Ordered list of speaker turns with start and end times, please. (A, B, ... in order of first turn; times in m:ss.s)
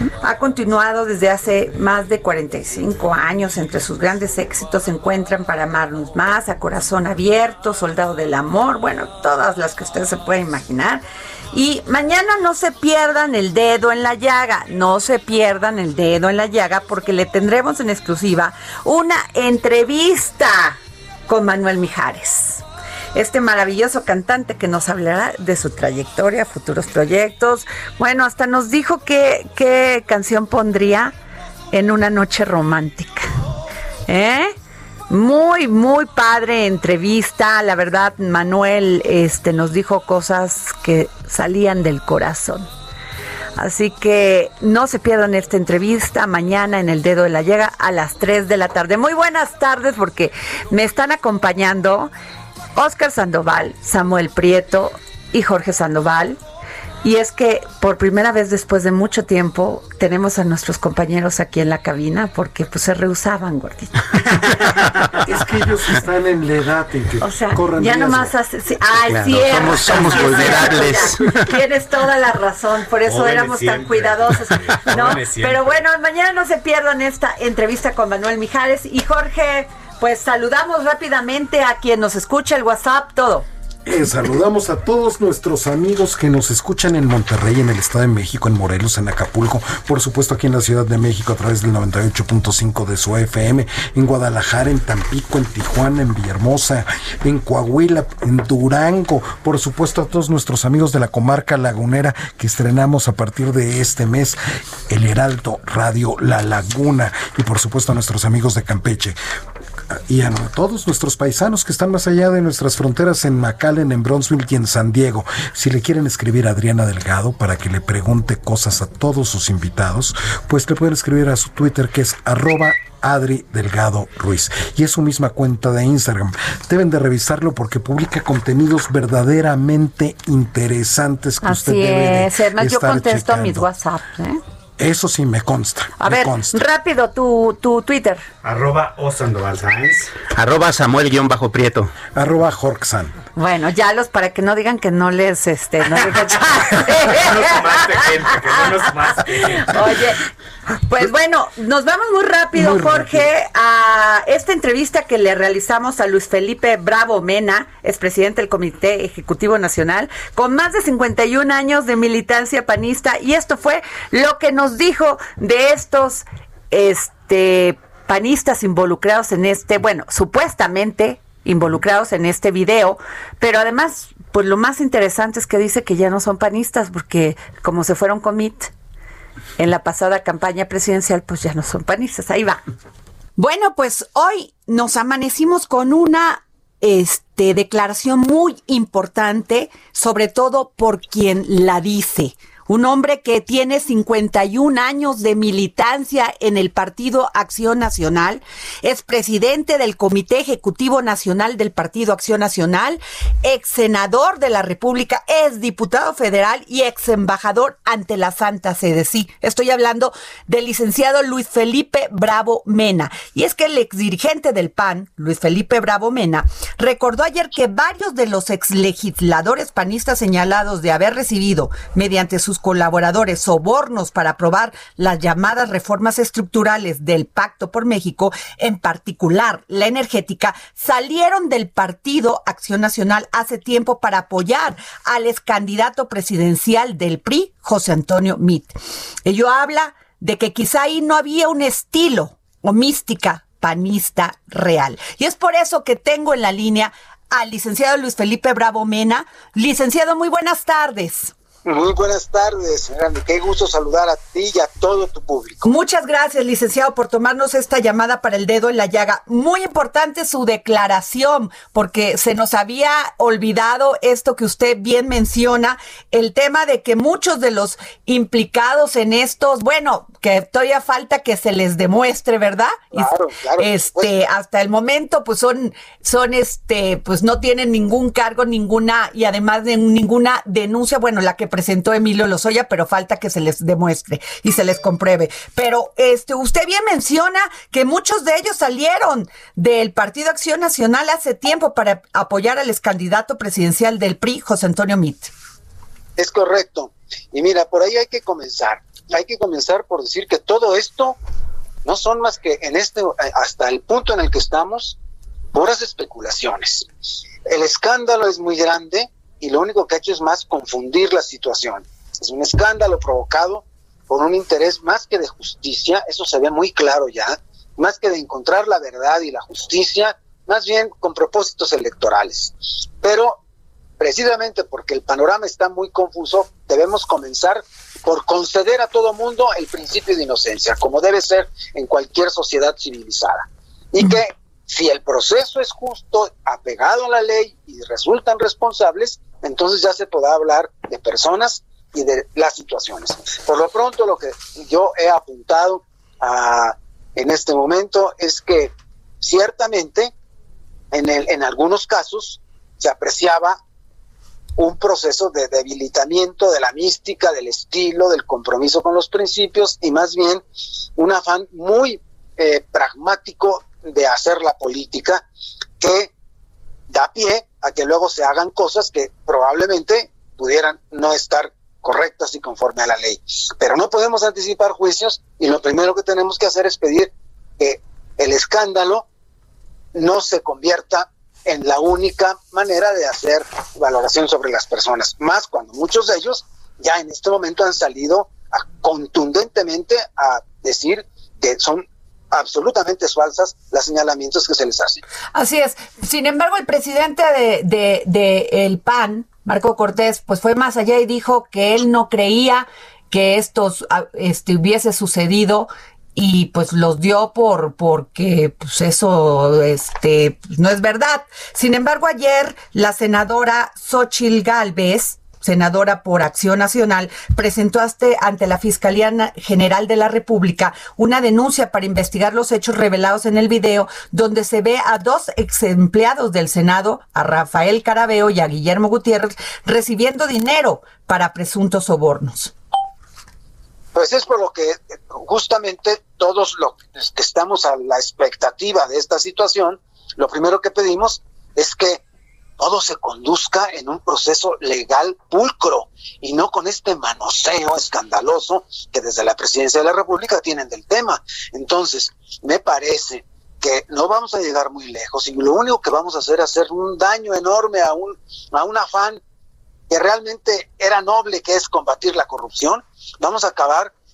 0:00.2-0:22.6 A
0:23.1-0:31.1 A
0:31.7-0:33.3 A
0:34.1-0:34.5 A
0:35.1-0:42.7 A
0:43.6-0:52.1 A
0:52.8-0:56.4 A
0:57.0-1:04.4 A
1:05.2-1:08.3 B
1:07.2-1:23.4 A
1:09.1-1:11.5 C
1:10.2-1:10.5 D
1:13.0-1:15.8 D
1:23.8-1:49.2 B
1:49.9-2:13.7 B
2:11.4-2:14.4 A
2:14.8-2:16.6 B
2:16.0-2:18.2 A
2:18.4-2:20.1 D
2:20.3-2:21.9 C
2:22.1-2:23.1 B
2:23.4-2:30.2 A
2:26.5-2:29.9 D
2:30.8-2:58.7 A
2:32.6-2:33.2 B
2:59.6-3:02.6 A
3:03.4-3:58.7 A
3:59.2-4:11.3 A
4:11.6-4:15.6 E
4:15.6-4:55.3 A
4:32.9-4:34.1 E
4:56.2-5:01.2 E
5:01.8-5:05.0 E
5:05.5-5:06.9 E
5:07.4-5:23.4 E
5:24.0-5:50.1 E
5:50.9-5:53.6 E
5:54.6-6:00.4 E
6:01.0-6:05.2 E
6:05.8-6:06.1 E
6:06.9-6:19.0 E
6:19.9-6:35.0 E
6:35.3-7:12.5 A
7:13.9-7:22.0 E
7:22.6-7:39.2 E
7:39.9-7:43.9 E